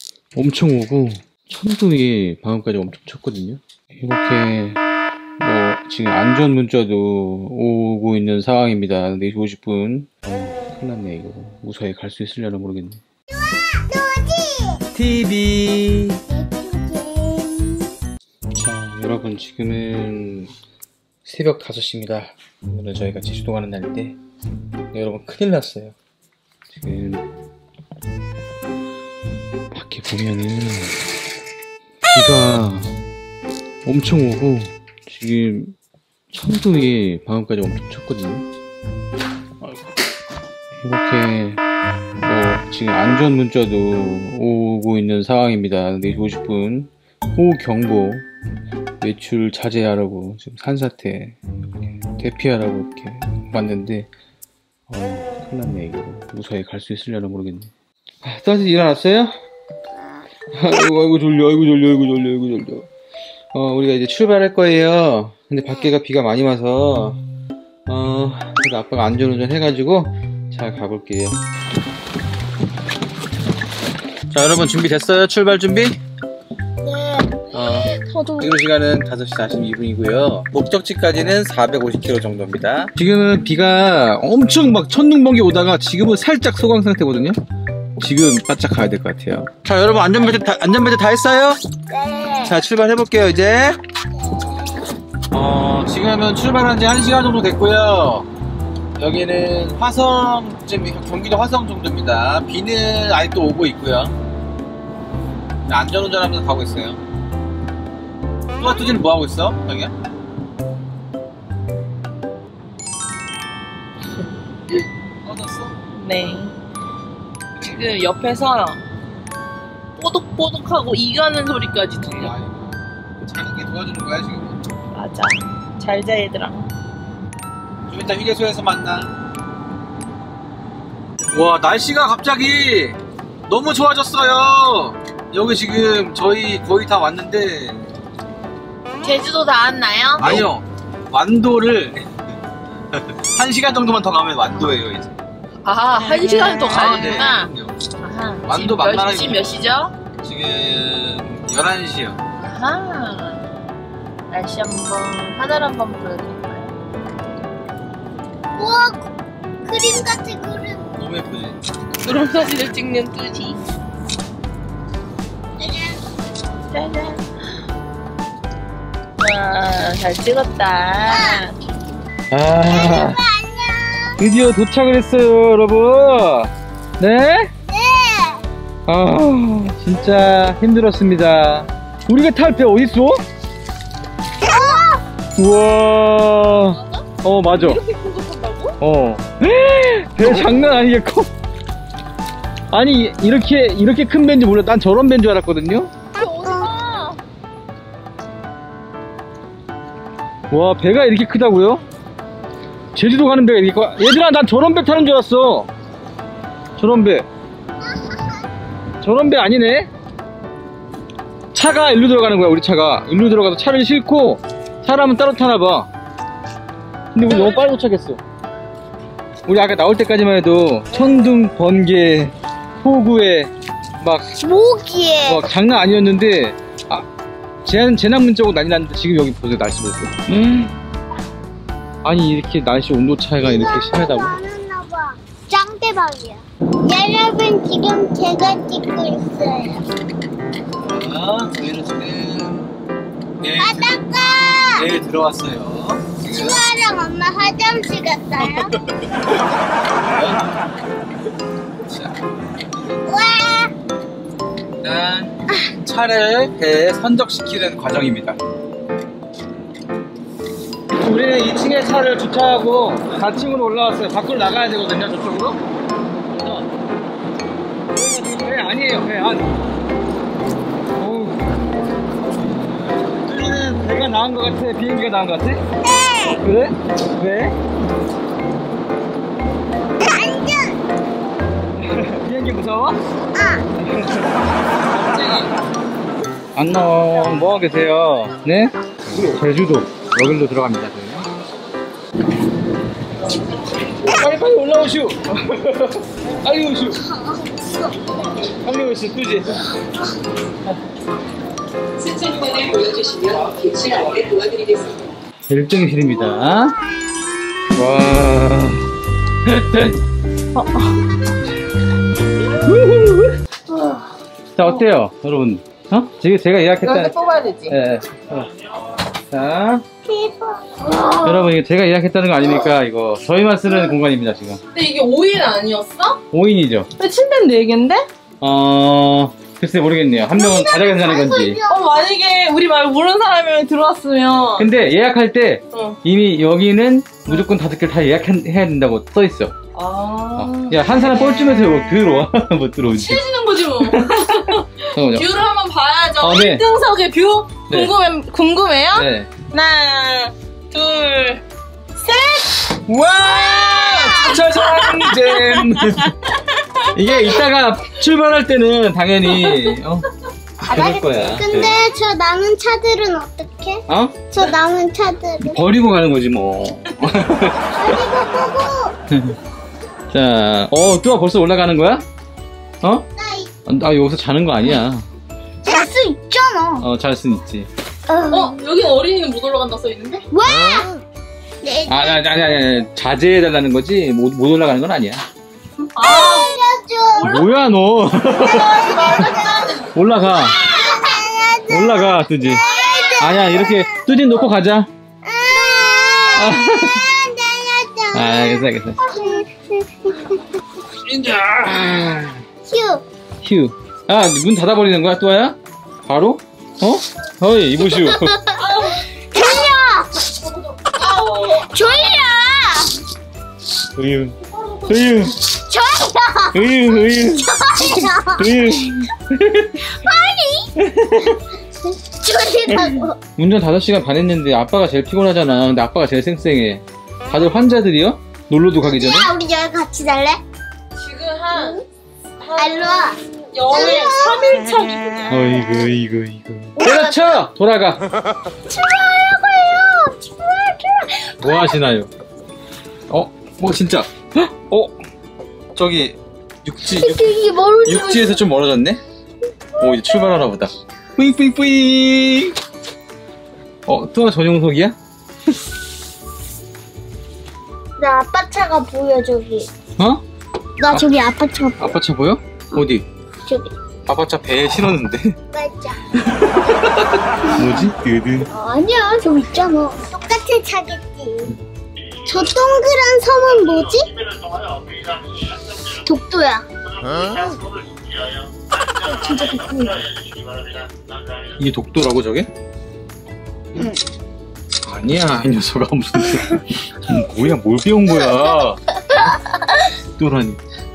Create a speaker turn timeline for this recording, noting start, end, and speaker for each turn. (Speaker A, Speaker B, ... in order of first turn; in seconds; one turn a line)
Speaker A: 0.3-4.8
Speaker A: 5.4-13.0
Speaker B: 13.4-14.8
Speaker A: 14.9-16.2
Speaker B: 16.3-17.9
Speaker A: 18.6-20.5
Speaker A: 21.2-24.2
Speaker A: 24.9-25.9
Speaker A: 26.7-27.2
Speaker A: 29.7-31.0
Speaker A: 32.1-32.9
Speaker A: 33.8-35.8
Speaker A: 36.3-38.5
Speaker A: 40.8-41.6
Speaker A: 42.2-48.2
Speaker A: 49.0-54.1
Speaker A: 54.9-57.7
Speaker A: 58.2-59.3
Speaker A: 60.5-62.9
Speaker A: 63.5-67.2
Speaker A: 67.9-71.4
Speaker A: 74.3-76.0
Speaker C: 76.9-78.5
Speaker A: 77.5-87.4
Speaker A: 88.0-91.6
Speaker B: 91.9-92.5
Speaker A: 92.5-93.8
Speaker A: 95.3-98.3
Speaker A: 99.0-104.1
Speaker A: 105.7-107.0
Speaker A: 108.6-109.9
Speaker A: 115.2-115.8
Speaker C: 115.9-116.5
Speaker C: 117.6-118.8
Speaker C: 120.0-122.3
Speaker A: 122.1-124.6
Speaker C: 124.9-126.7
Speaker A: 127.9-129.1
Speaker A: 131.3-137.8
Speaker C: 139.0-140.3
Speaker A: 140.2-142.1
Speaker A: 142.9-145.1
Speaker C: 145.6-149.9
Speaker A: 146.3-147.8
Speaker A: 148.4-149.6
Speaker A: 150.2-152.2
Speaker C: 152.4-153.4
Speaker C: 154.3-156.7
Speaker B: 158.5-159.1
Speaker B: 159.6-160.9
Speaker A: 161.0-161.6
Speaker C: 162.0-163.6
Speaker B: 165.6-166.0
Speaker C: 166.7-167.2
Speaker C: 169.2-171.5
Speaker B: 171.0-171.4
Speaker A: 172.3-173.2
Speaker B: 172.6-174.2
Speaker A: 174.2-177.5
Speaker B: 177.6-178.4
Speaker A: 178.9-183.2
Speaker B: 184.4-185.0
Speaker A: 185.3-187.8
Speaker C: 186.8-188.8
Speaker A: 188.8-191.3
Speaker A: 192.7-195.9
Speaker C: 196.1-197.2
Speaker A: 200.5-201.8
Speaker A: 202.9-205.7
Speaker A: 206.8-207.2
Speaker B: 207.9-208.4
Speaker A: 209.0-209.9
Speaker A: 211.5-215.9
Speaker A: 217.1-218.2
Speaker C: 217.3-217.6
Speaker A: 219.4-224.3
Speaker B: 224.4-225.4
Speaker A: 225.2-227.1
Speaker A: 227.6-230.7
Speaker A: 232.0-234.3
Speaker B: 233.4-239.8
Speaker A: 240.8-242.7
Speaker A: 243.4-244.0
Speaker B: 243.6-244.9
Speaker A: 244.8-246.6
Speaker B: 246.2-248.7
Speaker A: 250.0-250.4
Speaker A: 251.8-252.1
Speaker B: 253.0-253.7
Speaker A: 254.8-258.4
Speaker A: 261.0-265.6
Speaker A: 266.3-266.7
Speaker A: 267.9-269.5
Speaker A: 271.0-271.4
Speaker A: 273.1-275.6
Speaker B: 275.8-276.4
Speaker A: 276.4-277.6
Speaker B: 280.0-280.8
Speaker A: 281.8-283.0
Speaker B: 283.3-283.7
Speaker A: 283.8-284.3
Speaker A: 284.9-285.5
Speaker A: 286.6-291.3
Speaker A: 294.0-297.0
Speaker B: 297.1-298.3
Speaker A: 298.6-299.6
Speaker C: 302.0-304.9
Speaker A: 305.5-306.8
Speaker A: 307.8-308.9
Speaker A: 309.5-310.0
Speaker C: 310.6-311.0
Speaker A: 312.6-313.3
Speaker A: 314.6-317.2
Speaker C: 316.8-317.8
Speaker A: 317.7-318.5
Speaker A: 319.3-319.9
Speaker B: 320.0-321.5
Speaker A: 321.2-324.6
Speaker C: 324.7-326.2
Speaker A: 326.3-326.9
Speaker C: 327.0-328.1
Speaker A: 328.4-331.6
Speaker B: 330.3-332.1
Speaker C: 331.7-334.7
Speaker A: 334.6-339.5
Speaker C: 335.7-336.0
Speaker C: 339.8-340.8
Speaker A: 340.4-343.2
Speaker C: 342.9-351.4
Speaker A: 343.8-345.3
Speaker A: 346.2-346.6
Speaker A: 347.7-347.9
Speaker A: 348.9-349.4
Speaker C: 352.0-352.8
Speaker A: 352.9-356.1
Speaker B: 353.2-354.3
Speaker C: 353.5-356.9
Speaker A: 356.9-360.1
Speaker A: 360.6-361.8
Speaker B: 360.7-365.7
Speaker A: 363.9-364.4
Speaker A: 365.4-368.0
Speaker B: 367.7-369.0
Speaker A: 369.1-369.4
Speaker A: 370.1-372.0
Speaker A: 372.8-373.1
Speaker B: 373.2-373.5
Speaker A: 373.7-375.1
Speaker B: 375.6-376.9
Speaker A: 376.8-377.7
Speaker B: 378.1-378.5
Speaker C: 378.3-380.3
Speaker B: 380.3-381.0
Speaker B: 381.6-382.2
Speaker A: 381.9-385.2
Speaker C: 385.9-386.5
Speaker B: 386.0-387.5
Speaker A: 387.2-388.9
Speaker C: 388.4-389.9
Speaker B: 388.4-389.6
Speaker A: 389.9-390.7
Speaker B: 390.3-394.0
Speaker A: 391.7-392.6
Speaker C: 392.7-393.2
Speaker A: 393.2-394.9
Speaker B: 395.2-400.4
Speaker A: 396.4-397.1
Speaker A: 398.1-399.1
Speaker A: 401.0-402.4
Speaker B: 402.6-403.0
Speaker A: 403.4-408.4
Speaker B: 408.1-410.2
Speaker C: 408.6-409.4
Speaker C: 410.8-411.7
Speaker B: 411.0-413.0
Speaker A: 414.0-415.4
Speaker B: 415.6-419.0
Speaker A: 416.5-420.0
Speaker B: 419.8-420.7
Speaker A: 420.8-421.4
Speaker B: 421.9-423.2
Speaker A: 422.7-429.3
Speaker B: 428.8-430.4
Speaker C: 431.0-431.8
Speaker B: 431.5-431.8
Speaker C: 432.4-435.8
Speaker B: 432.5-434.4
Speaker A: 435.3-438.0
Speaker B: 436.8-437.4
Speaker B: 438.6-441.8
Speaker A: 441.4-442.1
Speaker A: 443.1-444.9
Speaker A: 445.8-447.3
Speaker C: 447.0-448.2
Speaker B: 447.2-447.9
Speaker A: 447.8-449.0
Speaker A: 449.8-452.6
Speaker A: 453.9-455.0
Speaker B: 458.0-459.7
Speaker A: 460.0-460.2
Speaker B: 460.8-461.9
Speaker A: 461.8-463.1
Speaker B: 463.5-463.7
Speaker A: 464.1-465.4
Speaker B: 465.5-466.0
Speaker A: 466.1-468.5
Speaker B: 468.5-471.6
Speaker B: 472.2-474.1
Speaker B: 476.1-476.6
Speaker B: 477.2-477.5
Speaker B: 479.0-480.1
Speaker A: 481.6-482.5
Speaker A: 484.8-488.8
Speaker A: 490.2-490.6